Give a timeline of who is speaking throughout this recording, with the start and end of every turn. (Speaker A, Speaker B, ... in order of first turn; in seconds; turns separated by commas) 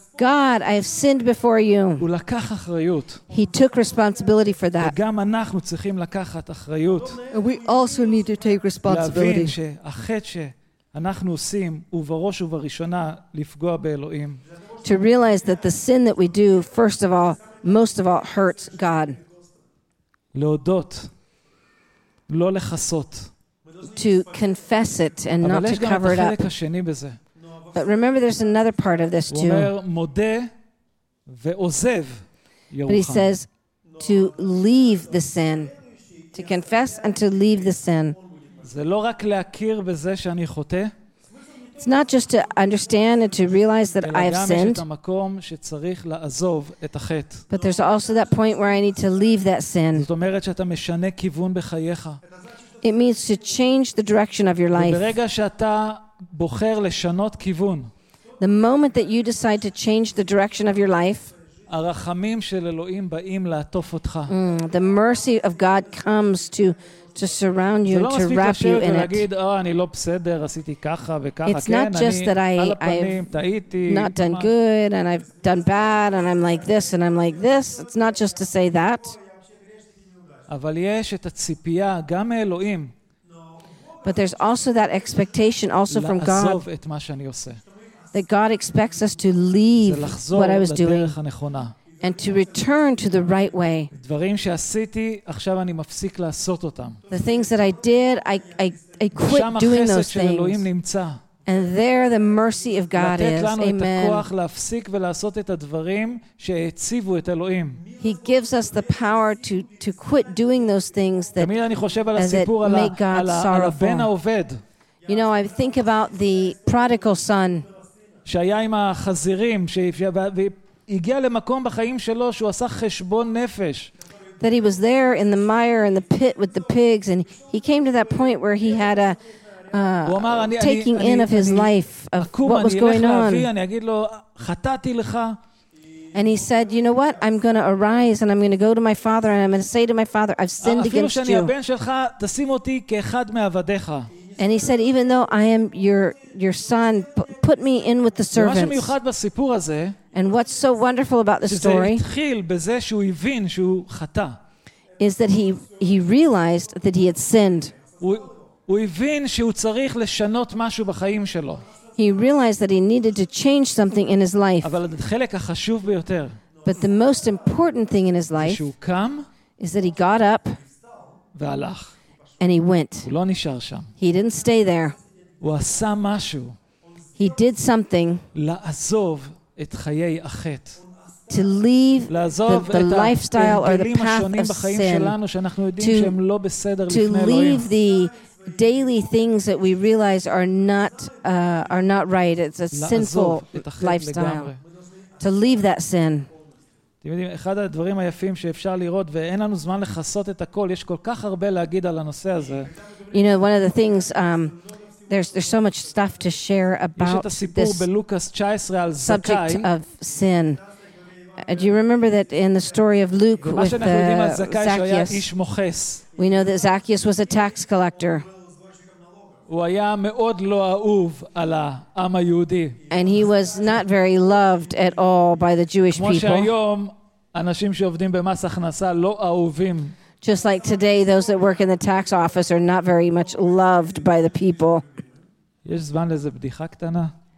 Speaker A: 0.2-2.0, Speaker B: 2.0-3.2, Speaker A: 3.3-4.9, Speaker B: 4.8-7.2, Speaker C: 7.3-9.6, Speaker B: 8.8-14.4, Speaker A: 14.8-19.2, Speaker B: 20.3-21.1, Speaker B: 22.3-23.3, Speaker A: 23.8-26.4, Speaker B: 25.4-27.2, Speaker A: 27.7-29.7, Speaker B: 29.3-30.5, Speaker B: 31.2-33.3, Speaker A: 32.9-33.5, Speaker A: 34.0-35.7, Speaker A: 36.3-38.1, Speaker B: 38.6-40.9, Speaker A: 41.8-44.8, Speaker B: 44.0-47.5, Speaker A: 47.5-50.0, Speaker B: 49.9-52.2, Speaker A: 52.8-55.1, Speaker B: 54.7-57.9, Speaker A: 58.4-61.3, Speaker B: 61.7-64.3, Speaker A: 64.3-69.2, Speaker B: 67.8-74.5, Speaker A: 71.4-73.2, Speaker A: 73.9-79.2, Speaker B: 80.5-82.9, Speaker A: 84.0-86.6, Speaker B: 85.9-87.6, Speaker A: 88.1-91.1, Speaker B: 89.8-91.7, Speaker A: 92.0-93.9, Speaker B: 93.9-97.0, Speaker A: 97.1-100.6, Speaker B: 99.1-101.2, Speaker A: 101.5-104.2, Speaker B: 103.0-107.8, Speaker A: 108.0-111.5, Speaker B: 111.4-114.6, Speaker A: 112.1-114.1, Speaker A: 115.1-117.7, Speaker B: 118.2-123.9, Speaker A: 124.4-129.2, Speaker A: 129.7-133.5, Speaker B: 130.0-135.4, Speaker A: 136.1-141.5, Speaker B: 140.6-144.1, Speaker A: 144.4-148.9, Speaker B: 148.3-150.0, Speaker A: 150.1-152.0, Speaker B: 151.4-154.4, Speaker A: 155.0-157.7, Speaker B: 158.0-161.6, Speaker A: 162.0-164.7, Speaker B: 164.6-166.4, Speaker A: 166.6-168.6, Speaker B: 168.4-169.2, Speaker A: 169.6-170.6, Speaker B: 171.3-171.9, Speaker A: 172.4-173.1, Speaker B: 173.1-173.9, Speaker A: 174.0-174.9, Speaker B: 175.4-176.6, Speaker A: 177.2-178.2, Speaker B: 178.3-180.8, Speaker A: 181.3-185.1, Speaker B: 182.1-187.7, Speaker A: 185.8-186.1, Speaker A: 186.9-194.5, Speaker B: 192.7-194.6, Speaker A: 195.2-196.3, Speaker B: 197.0-202.7, Speaker A: 203.1-204.6, Speaker A: 205.1-207.8, Speaker B: 207.0-209.7, Speaker A: 209.0-210.6, Speaker A: 211.4-215.3, Speaker B: 213.4-216.0, Speaker A: 216.2-218.2, Speaker B: 219.5-222.8, Speaker A: 222.9-226.5, Speaker B: 225.9-229.9, Speaker A: 230.2-234.8, Speaker B: 235.6-237.1